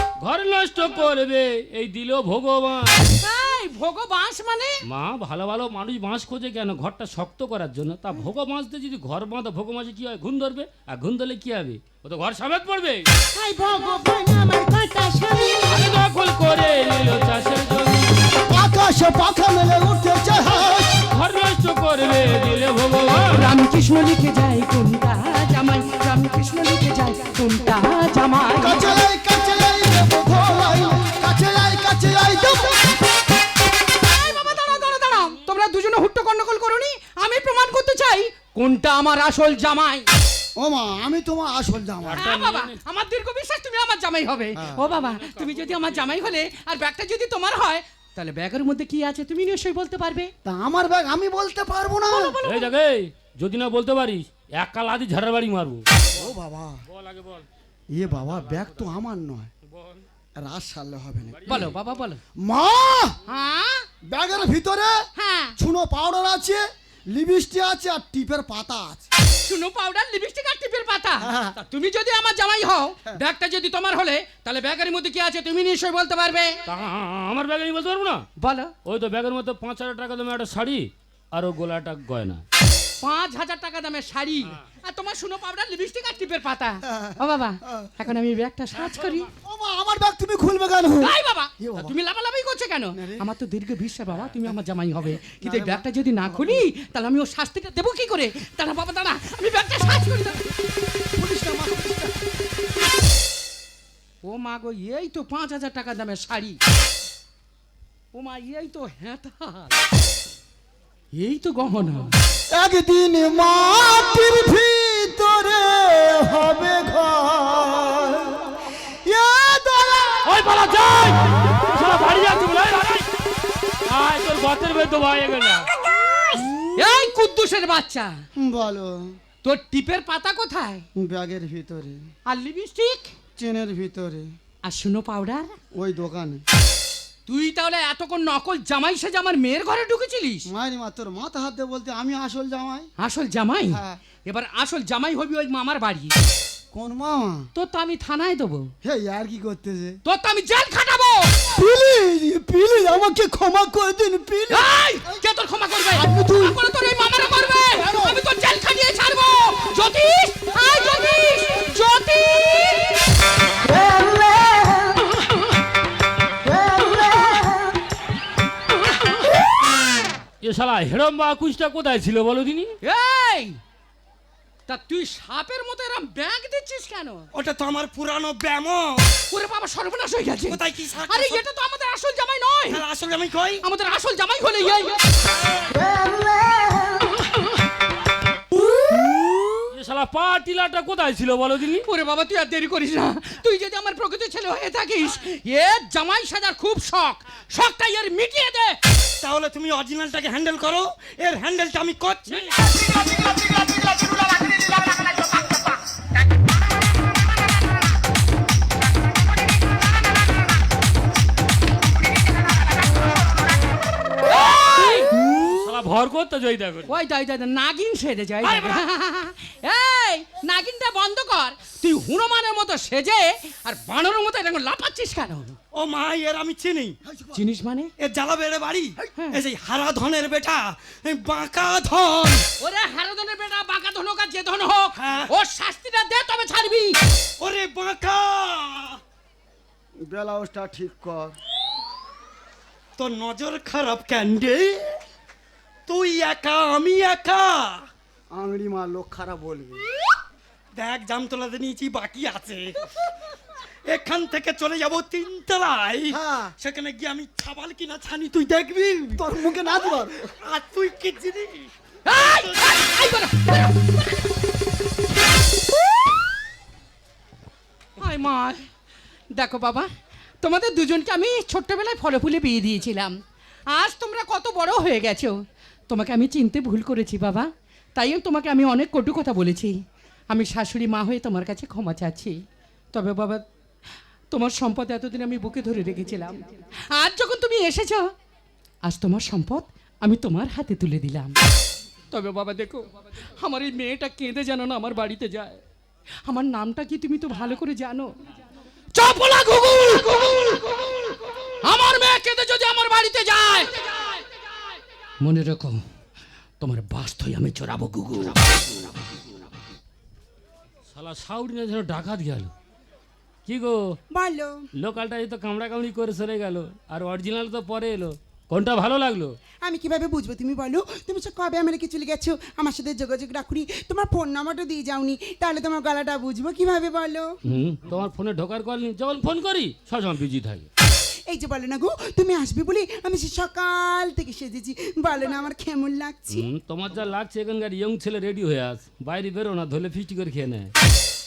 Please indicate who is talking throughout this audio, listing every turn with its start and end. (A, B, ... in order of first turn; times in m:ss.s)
0:00.2-0:03.0 A
0:03.1-0:04.8 B
0:04.9-0:13.1 A
0:13.3-0:16.0 C
0:15.7-0:18.1 A
0:18.5-0:21.1 D
0:21.1-0:23.4 A
0:23.3-0:29.0 B
0:28.6-0:33.0 D
0:33.9-0:40.1 B
0:40.6-0:42.3 D
0:42.0-0:42.8 A
0:42.2-0:50.3 B
0:44.6-0:44.9 D
0:44.8-0:46.3 A
0:50.4-0:52.4 D
0:52.1-0:52.7 B
0:52.4-0:56.1 A
0:56.1-0:56.8 D
0:56.9-0:57.5 A
0:57.9-0:59.5 D
0:58.2-0:58.9 A
0:59.7-1:00.0 A
1:00.4-1:01.6 D
1:01.3-1:01.7 A
1:01.5-1:02.2 B
1:02.4-1:03.2 D
1:03.3-1:03.9 B
1:04.0-1:05.1 D
1:05.2-1:05.6 B
1:05.6-1:09.1 D
1:09.4-1:16.6 B
1:11.2-1:11.6 D
1:16.7-1:18.2 A
1:18.4-1:18.7 B
1:18.8-1:22.4 A
1:23.0-1:29.3 B
1:26.8-1:28.1 D
1:29.4-1:32.0 D
1:31.0-1:40.6 B
1:32.9-1:33.2 D
1:35.2-1:36.7 D
1:41.2-1:42.3 D
1:44.2-1:46.6 B
1:48.1-1:49.7 B
1:51.1-1:52.1 B
1:52.5-2:00.3 D
2:00.2-2:03.1 A
2:03.9-2:05.7 A
2:06.3-2:06.7 D
2:06.8-2:08.2 B
2:08.4-2:09.2 D
2:09.4-2:10.8 B
2:11.0-2:12.0 D
2:12.3-2:13.1 B
2:13.4-2:14.3 D
2:14.6-2:15.6 B
2:15.7-2:16.4 D
2:17.3-2:20.5 B
2:20.5-2:22.9 D
2:23.0-2:26.1 B
2:23.7-2:24.0 D
2:26.7-2:27.5 D
2:27.6-2:28.7 B
2:28.8-2:30.0 D
2:30.0-2:31.4 B
2:31.5-2:34.7 D
2:34.5-2:43.0 B
2:35.9-2:36.6 D
2:37.7-2:38.2 D
2:50.4-2:52.8 A
2:52.8-2:53.6 B
2:54.7-2:57.3 B
2:57.3-2:59.1 E
2:59.3-3:02.8 B
3:00.5-3:01.4 E
3:02.7-3:03.6 E
3:03.6-3:05.0 B
3:09.7-3:11.8 A
3:11.8-3:18.8 B
3:19.2-3:22.8 E
3:24.4-3:24.7 E
3:34.3-3:35.1 B
3:35.2-3:36.9 A
3:36.9-3:45.6 B
3:38.4-3:38.8 E
3:45.7-3:47.0 E
3:47.1-3:47.4 D
3:47.3-3:47.9 B
3:48.0-3:52.4 E
3:49.1-3:49.4 B
3:52.6-3:57.0 B
3:55.0-3:55.3 E
3:57.4-3:59.0 E
4:00.0-4:01.4 D
4:03.0-4:05.0 E
4:05.9-4:07.8 E
4:08.3-4:09.8 D
4:10.8-4:12.8 E
4:13.9-4:19.4 E
4:16.1-4:16.5 D
4:19.2-4:20.3 D
4:20.4-4:21.7 E
4:22.0-4:23.7 B
4:22.4-4:22.8 E
4:28.0-4:28.7 B
4:29.3-4:29.9 B
4:30.4-4:42.4 B
4:42.9-4:43.4 B
4:44.3-4:48.1 B
4:48.8-4:51.4 B
4:52.1-4:52.8 B
4:53.4-4:55.6 B
4:56.3-4:58.2 B
4:58.9-5:00.9 B
5:01.6-5:04.1 B
5:05.2-5:05.8 B
5:06.6-5:09.0 B
5:10.9-5:12.5 A
5:13.5-5:14.0 A
5:14.1-5:14.7 C
5:14.8-5:19.4 A
5:19.6-5:27.4 C
5:27.5-5:30.7 A
5:31.3-5:36.5 C
5:36.3-5:40.7 A